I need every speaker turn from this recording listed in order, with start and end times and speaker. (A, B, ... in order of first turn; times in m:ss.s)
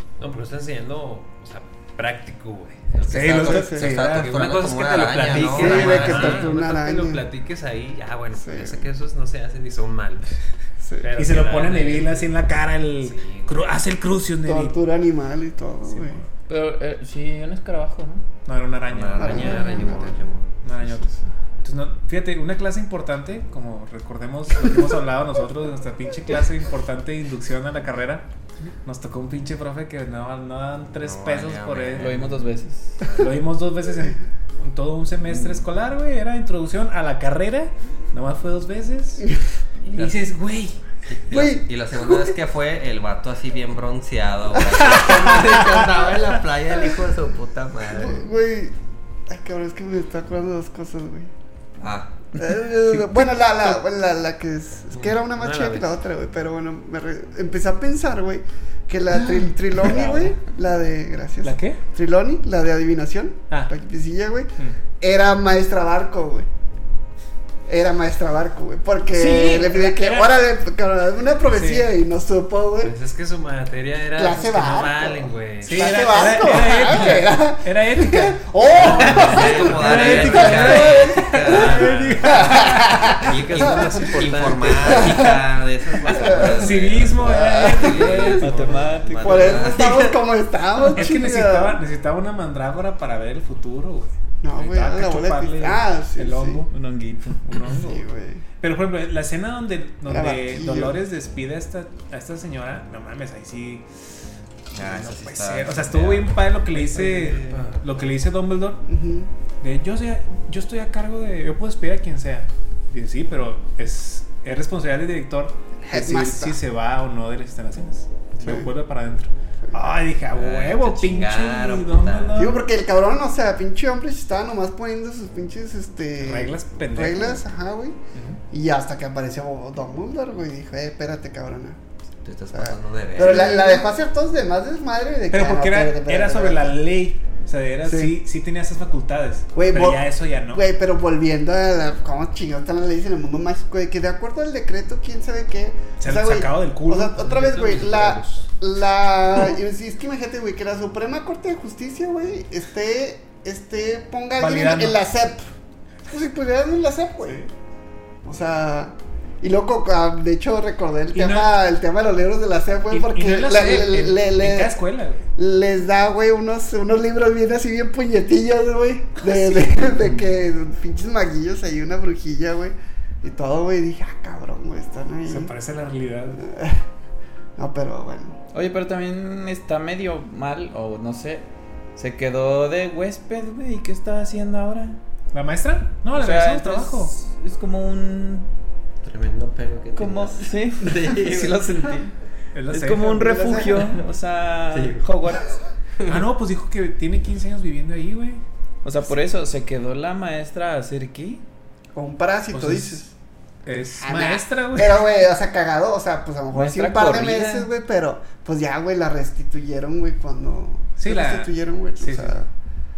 0:00.2-0:10.3 A
0:03.1-0:06.5 B
0:03.1-0:06.5 C
0:03.3-0:03.8 D
0:05.3-0:07.2 D
0:08.3-0:08.9 D
0:10.8-0:11.1 D
0:11.0-0:12.3 A
0:11.2-0:14.8 B
0:13.0-0:13.7 A
0:14.4-0:16.2 D
0:15.8-0:16.2 B
0:16.5-0:18.2 E
0:18.4-0:19.7 B
0:18.9-0:20.6 C
0:19.2-0:20.2 D
0:20.6-0:21.1 B
0:20.8-0:21.2 D
0:21.6-0:28.2 B
0:28.8-0:32.2 B
0:30.9-0:32.3 C
0:32.0-0:33.0 E
0:33.2-0:39.2 B
0:35.3-0:35.6 E
0:39.9-0:40.8 B
0:41.0-0:48.3 C
0:41.3-0:42.3 D
0:45.0-0:45.6 B
0:47.9-0:48.7 D
0:49.3-0:51.3 D
0:51.8-0:52.2 C
0:52.3-1:06.5 D
0:52.9-0:53.2 B
0:55.0-0:55.9 A
0:59.1-1:00.4 B
1:01.4-1:01.8 B
1:07.6-1:12.9 D
1:09.1-1:10.3 B
1:11.5-1:11.9 B
1:12.8-1:16.3 A
1:14.2-1:24.1 D
1:15.6-1:23.1 B
1:18.7-1:25.2 A
1:18.8-1:30.2 C
1:24.7-1:28.4 D
1:26.3-1:28.6 B
1:27.7-1:28.9 A
1:28.1-1:29.8 E
1:29.2-1:31.8 D
1:30.9-1:36.7 B
1:34.4-1:36.6 D
1:36.7-1:37.5 E
1:37.3-1:38.0 B
1:37.6-1:38.4 D
1:38.6-1:43.8 B
1:40.1-1:41.0 D
1:44.7-1:46.3 C
1:44.7-1:48.8 B
1:46.9-1:47.7 C
1:47.1-1:47.8 A
1:48.8-1:49.3 D
1:49.6-2:02.6 B
1:55.8-1:56.6 D
1:58.4-1:58.7 D
2:00.3-2:02.5 C
2:02.3-2:08.0 D
2:06.2-2:07.4 B
2:08.1-2:08.4 B
2:08.5-2:11.8 D
2:12.2-2:13.8 C
2:12.5-2:16.8 D
2:13.2-2:13.6 B
2:15.3-2:20.6 B
2:17.8-2:18.1 D
2:19.5-2:35.4 D
2:26.0-2:27.2 B
2:27.2-2:28.5 A
2:34.4-2:35.0 B
2:36.1-2:37.5 D
2:38.2-2:44.8 D
2:41.1-2:41.6 B
2:42.9-2:45.3 B
2:45.4-2:55.5 D
2:49.3-2:50.2 B
2:55.2-2:56.4 B
2:56.4-2:56.8 D
2:57.6-2:58.4 D
2:58.5-3:05.0 E
3:05.3-3:07.1 B
3:06.1-3:08.5 E
3:09.0-3:11.7 C
3:09.9-3:12.1 E
3:12.5-3:13.4 B
3:12.7-3:15.5 E
3:13.2-3:13.9 D
3:14.7-3:15.0 C
3:16.0-3:18.4 B
3:18.8-3:21.4 E
3:21.9-3:23.1 D
3:22.5-3:23.0 B
3:23.6-3:25.1 B
3:23.7-3:32.5 D
3:26.5-3:27.7 E
3:31.0-3:32.4 B